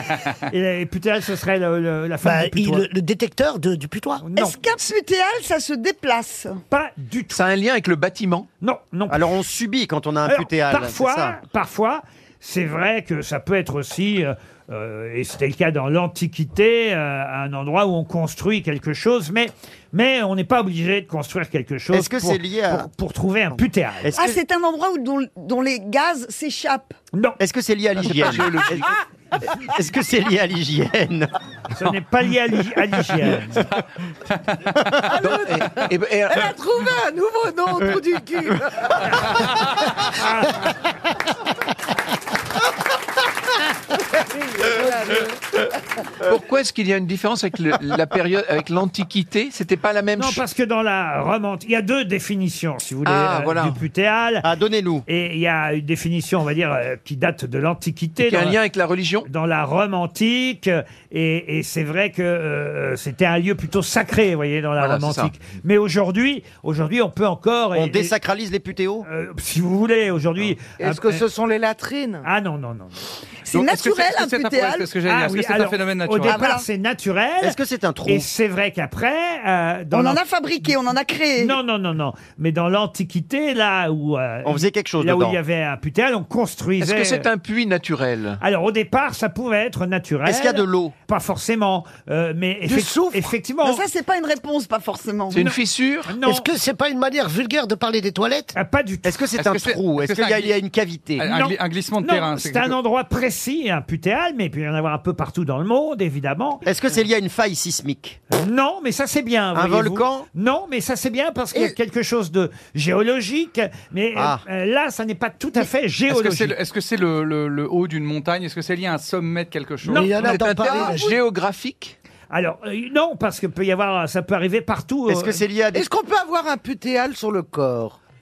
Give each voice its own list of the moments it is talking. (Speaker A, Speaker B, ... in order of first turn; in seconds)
Speaker A: 0.5-2.9, 4.2-4.5, 6.7-7.4, 8.6-9.2, 10.2-24.2, 31.7-33.6, 40.1-40.5, 50.1-54.5, 55.1-58.6, 59.2-68.1, 69.0-71.2, 72.2-73.0, 75.0-80.2, 81.4-87.3, 88.4-93.8, 96.0-96.5, 98.5-99.2, 101.2-106.6, 108.3-116.5, 122.3-125.4
Speaker B: 2.2-4.2, 96.2-98.5, 119.9-121.2
Speaker C: 4.3-6.6, 24.2-26.9, 73.5-74.9, 76.3-76.6, 79.9-81.6, 93.6-95.5
Speaker D: 7.3-8.5, 28.0-28.9, 35.1-36.5, 46.2-50.4, 53.0-53.8, 58.2-59.3, 64.8-65.3, 86.8-88.4, 95.3-96.1, 120.1-121.9
Speaker E: 9.1-11.4, 21.9-22.9, 23.5-24.4, 27.4-28.9, 29.6-31.3, 54.4-55.0, 67.7-69.0, 77.4-78.3, 84.4-85.4, 90.2-90.9, 99.0-101.2, 106.6-108.2, 109.5-110.2, 114.1-114.4, 125.1-125.8
Speaker F: 35.1-35.7, 36.3-38.9, 44.6-45.3, 70.8-72.2, 92.7-93.3, 125.7-128.0
Speaker G: 73.5-76.4, 99.4-100.5, 101.2-102.8, 116.1-120.4